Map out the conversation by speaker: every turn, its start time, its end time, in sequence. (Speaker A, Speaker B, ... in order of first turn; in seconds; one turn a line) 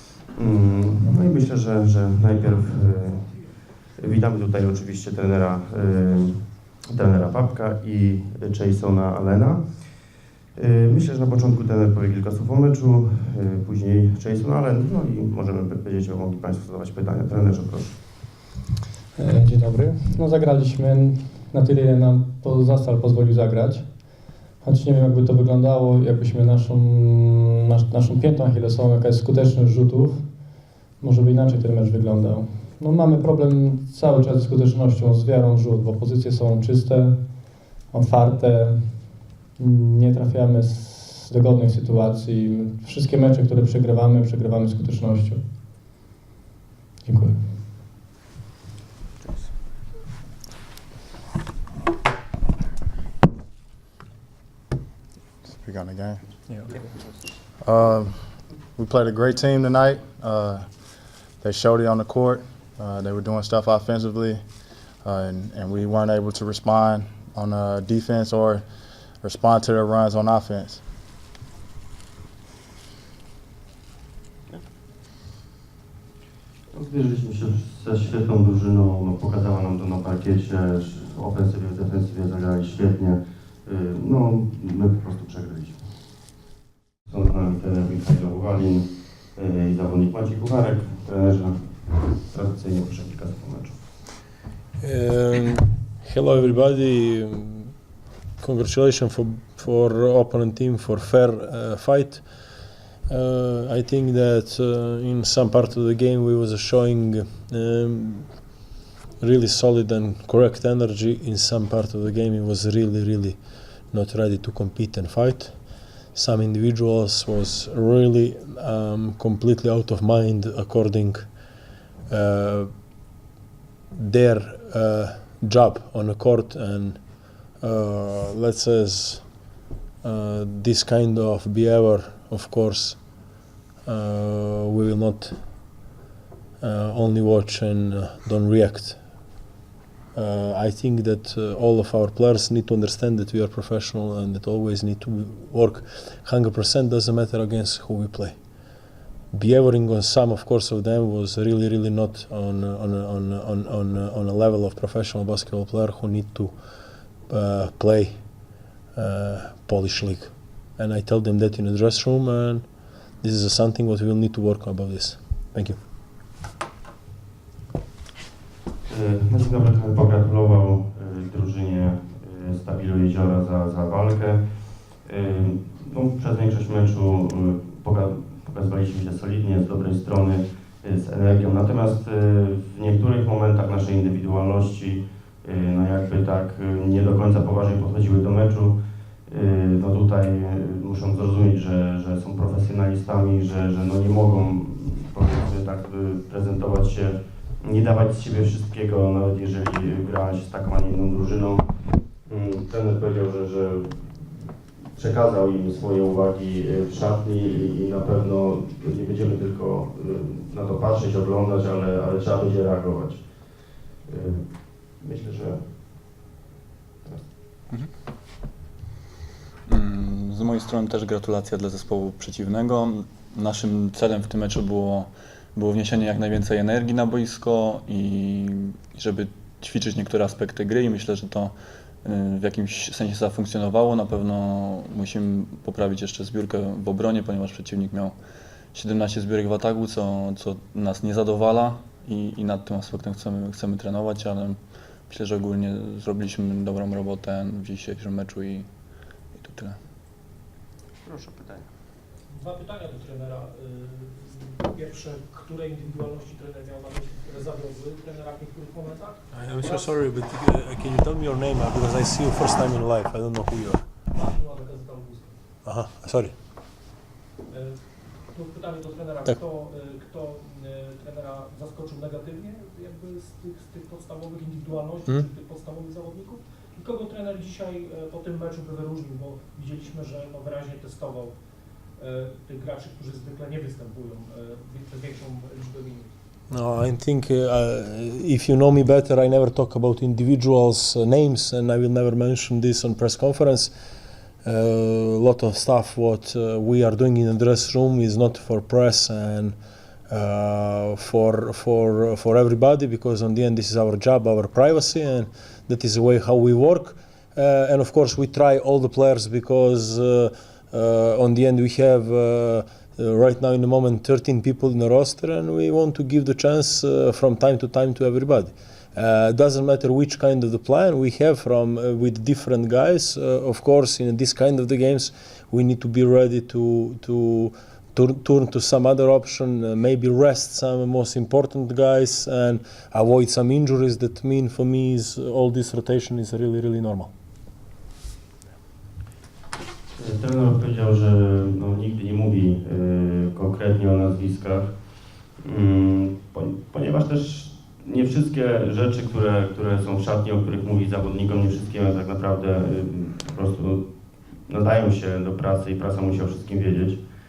Speaker A: 0.2-3.3
Speaker A: 4.0-9.6
Speaker A: 10.6-18.0
Speaker B: 19.1-24.0
Speaker B: 24.6-45.4
Speaker B: 47.0-47.5
Speaker C: 55.4-56.2
Speaker C: 57.6-58.2
Speaker C: 58.7-60.7
Speaker C: 61.4-64.4
Speaker C: 65.0-68.6
Speaker C: 69.2-70.8
Speaker A: 76.7-85.8
Speaker A: 87.1-93.8
Speaker D: 94.8-97.7
Speaker D: 98.4-102.3
Speaker D: 103.1-108.4
Speaker D: 109.2-121.3
Speaker D: 122.1-122.7
Speaker D: 123.9-136.0
Speaker D: 136.6-139.2
Speaker D: 140.1-148.4
Speaker D: 149.3-156.6
Speaker D: 157.3-165.8
Speaker A: 168.9-174.4
Speaker A: 175.0-188.7
Speaker A: 189.3-201.6
Speaker A: 202.3-204.2
Speaker A: 204.9-213.2
Speaker A: 214.1-214.4
Speaker A: 215.0-215.6
Speaker E: 219.7-238.2
Speaker E: 238.7-248.7
Speaker E: 249.3-249.8
Speaker A: 251.0-251.7
Speaker F: 252.3-259.9
Speaker D: 259.3-263.9
Speaker F: 264.1-265.4
Speaker D: 265.6-266.4
Speaker F: 267.5-281.4
Speaker F: 282.0-286.1
Speaker D: 286.5-293.8
Speaker D: 294.4-299.6
Speaker D: 300.1-337.1
Speaker A: 340.0-344.7
Speaker A: 345.4-353.8
Speaker A: 354.5-357.0